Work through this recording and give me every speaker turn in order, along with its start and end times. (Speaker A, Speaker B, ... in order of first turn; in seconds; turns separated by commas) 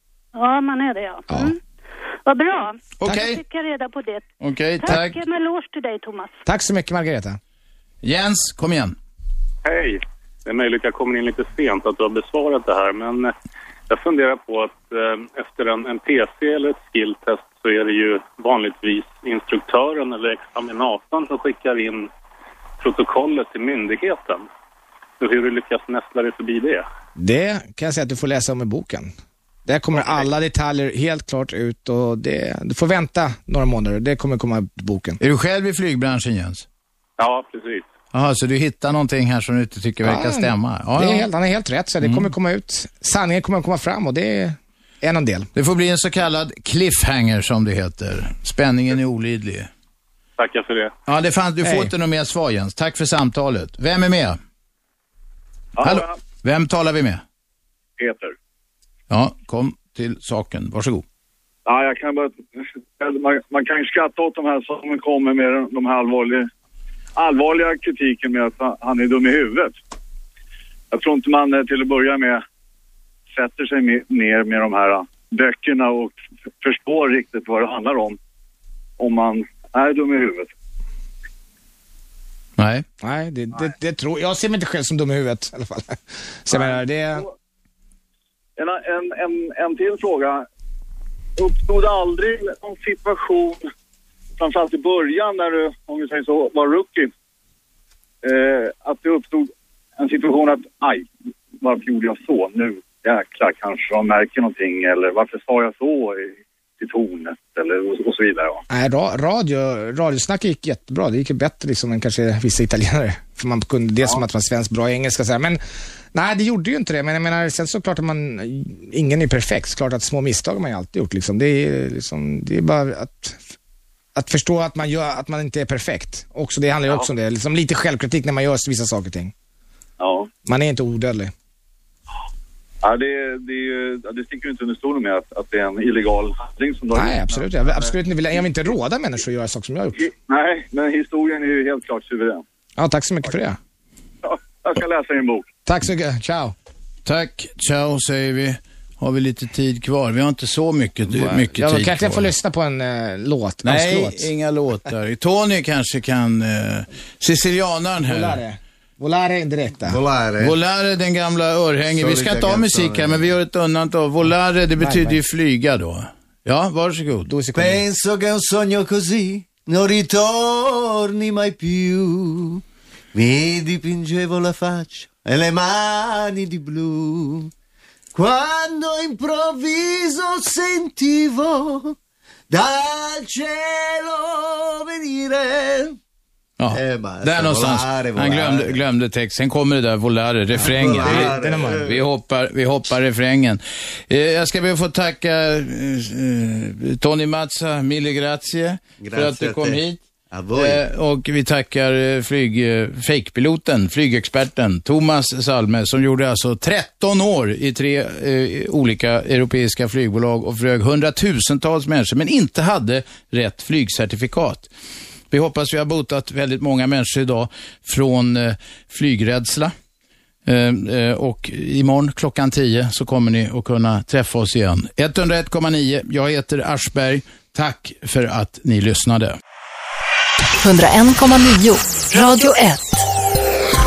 Speaker A: 0.3-1.6, Speaker A: 2.3-4.3, Speaker B: 3.0-3.4, Speaker B: 4.4-5.2, Speaker A: 4.8-6.4, Speaker C: 6.5-7.4, Speaker B: 8.0-8.9, Speaker D: 9.7-10.0, Speaker D: 10.5-13.3, Speaker D: 13.9-22.1, Speaker D: 22.8-24.4, Speaker D: 25.2-26.8, Speaker C: 27.2-29.1, Speaker C: 29.7-35.2, Speaker B: 35.2-36.7, Speaker D: 37.2-37.8, Speaker B: 38.1-41.3, Speaker C: 40.0-45.5, Speaker B: 42.0-42.3, Speaker B: 45.5-49.7, Speaker D: 50.4-50.9, Speaker B: 51.1-54.4, Speaker C: 51.6-51.9, Speaker B: 55.8-57.2, Speaker B: 59.1-61.0, Speaker E: 61.7-62.3, Speaker E: 63.0-66.3, Speaker E: 67.2-69.7, Speaker E: 70.9-72.3, Speaker E: 73.4-74.9, Speaker E: 75.7-76.1, Speaker E: 76.9-78.0, Speaker E: 79.0-79.4, Speaker E: 80.0-80.4, Speaker B: 82.6-82.8, Speaker C: 83.0-87.2, Speaker E: 88.6-89.3, Speaker E: 89.9-90.2, Speaker E: 91.5-93.3, Speaker E: 94.4-95.3, Speaker E: 96.2-97.0, Speaker E: 98.9-99.4, Speaker E: 101.7-102.2, Speaker E: 103.9-104.9, Speaker E: 105.5-106.1, Speaker E: 106.8-108.5, Speaker C: 108.7-115.6, Speaker C: 116.1-123.5, Speaker C: 124.2-129.3, Speaker C: 130.5-131.3, Speaker E: 134.3-135.0, Speaker C: 136.9-140.1, Speaker E: 140.3-142.4, Speaker C: 142.8-143.6, Speaker E: 144.2-145.4, Speaker C: 145.7-146.6, Speaker B: 147.1-152.3, Speaker C: 151.1-154.3, Speaker B: 153.6-158.4, Speaker C: 158.0-160.0, Speaker F: 159.8-160.6, Speaker B: 160.4-167.3, Speaker F: 161.9-163.3, Speaker C: 164.8-165.2, Speaker C: 167.3-167.8, Speaker F: 167.5-172.6, Speaker F: 173.1-177.5, Speaker F: 178.1-182.0, Speaker F: 182.5-186.0, Speaker B: 186.6-200.0, Speaker F: 186.7-188.8, Speaker F: 190.5-192.1, Speaker C: 190.9-191.8, Speaker F: 199.0-200.8, Speaker B: 200.6-214.7, Speaker B: 215.3-219.7, Speaker B: 220.5-229.4, Speaker G: 230.6-233.0